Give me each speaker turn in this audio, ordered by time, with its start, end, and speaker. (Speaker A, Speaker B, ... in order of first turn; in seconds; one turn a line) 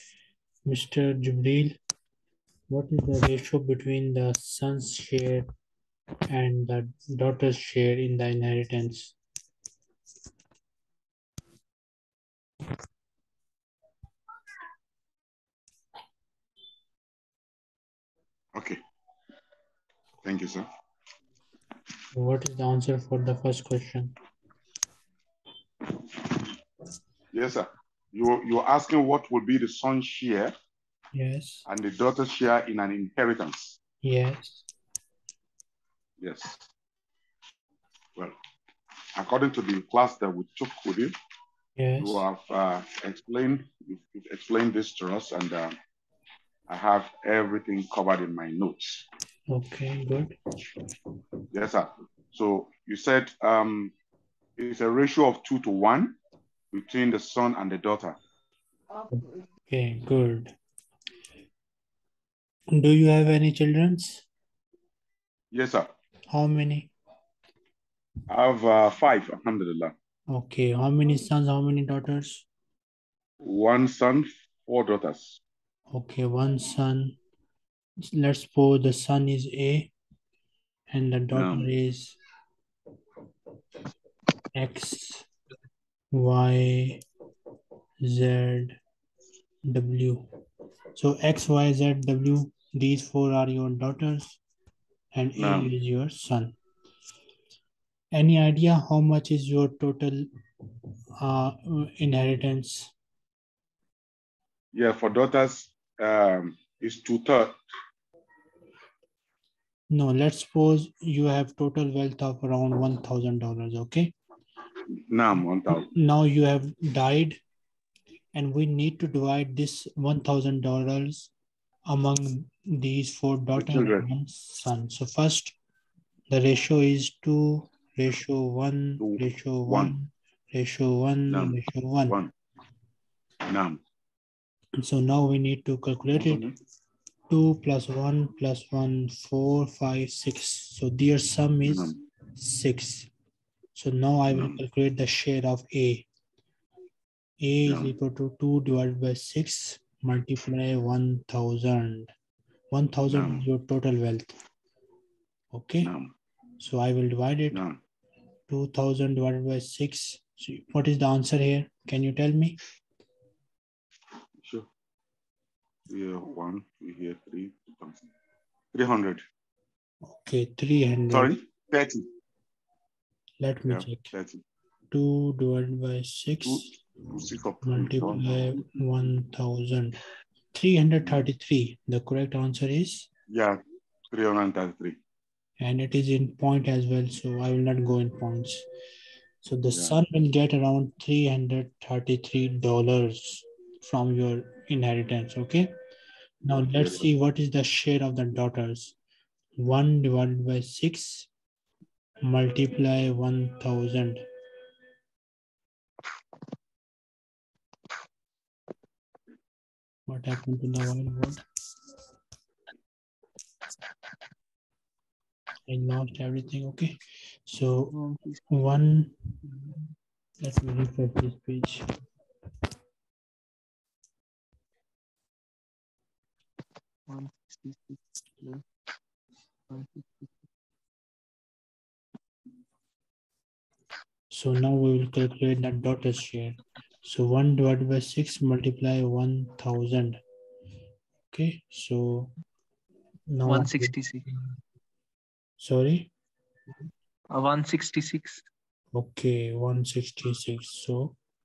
Speaker A: 0.7-1.8
Speaker A: 2.7-5.5
Speaker A: 6.3-9.2
Speaker B: 18.5-18.8
Speaker B: 20.2-20.7
Speaker A: 22.1-24.1
Speaker B: 27.3-30.5
Speaker A: 31.1-31.7
Speaker B: 31.7-33.8
Speaker A: 34.0-34.6
Speaker B: 36.2-36.6
Speaker B: 39.1-41.1
Speaker A: 41.8-42.3
Speaker B: 42.0-45.8
Speaker B: 46.7-49.0
Speaker A: 49.5-50.4
Speaker B: 51.5-53.9
Speaker B: 54.6-56.2
Speaker B: 56.7-58.2
Speaker A: 59.1-60.6
Speaker A: 62.7-64.3
Speaker B: 65.5-65.9
Speaker A: 66.3-66.9
Speaker B: 68.3-69.9
Speaker A: 70.3-72.5
Speaker B: 73.4-75.4
Speaker A: 75.9-77.2
Speaker A: 78.1-79.9
Speaker A: 80.9-82.2
Speaker B: 81.3-81.7
Speaker A: 84.5-85.3
Speaker A: 86.1-87.0
Speaker A: 88.0-88.8
Speaker A: 89.7-90.3
Speaker A: 91.0-94.4
Speaker A: 95.1-96.6
Speaker B: 95.4-95.7
Speaker A: 98.1-100.3
Speaker A: 101.2-102.9
Speaker B: 104.7-107.6
Speaker A: 109.9-114.2
Speaker B: 114.9-115.9
Speaker A: 115.8-117.4
Speaker A: 118.3-121.3
Speaker A: 121.9-125.6
Speaker B: 123.5-124.1
Speaker A: 126.3-132.2
Speaker B: 129.0-129.9
Speaker B: 131.3-132.3
Speaker B: 133.5-133.8
Speaker A: 134.8-136.5
Speaker B: 136.2-136.6
Speaker A: 137.3-143.1
Speaker B: 141.7-141.9
Speaker A: 143.8-146.1
Speaker B: 144.3-144.6
Speaker A: 147.4-152.1
Speaker B: 147.7-147.9
Speaker A: 152.7-154.3
Speaker B: 153.1-153.4
Speaker A: 155.5-155.9
Speaker B: 155.8-156.1
Speaker A: 156.6-157.6
Speaker B: 157.5-157.8
Speaker A: 158.5-162.6
Speaker B: 165.9-168.0
Speaker B: 168.7-169.2
Speaker A: 170.1-171.3
Speaker B: 171.1-172.1
Speaker A: 173.4-174.1
Speaker B: 173.7-174.4
Speaker A: 174.9-176.7
Speaker B: 176.4-178.5
Speaker A: 177.6-180.0
Speaker A: 180.5-183.1
Speaker B: 183.3-185.0
Speaker A: 185.6-188.7
Speaker A: 189.4-195.7
Speaker A: 196.4-198.9
Speaker B: 196.5-197.1
Speaker A: 199.6-201.3
Speaker A: 202.2-204.2
Speaker A: 210.1-211.4
Speaker A: 215.7-217.9
Speaker C: 217.9-218.4
Speaker A: 218.5-219.1
Speaker A: 220.4-221.8
Speaker C: 227.1-228.6
Speaker C: 229.7-230.3
Speaker A: 234.3-240.2
Speaker A: 241.3-242.3
Speaker A: 243.3-243.9
Speaker C: 243.5-244.3
Speaker A: 245.6-246.1
Speaker C: 247.3-248.4
Speaker A: 248.9-251.2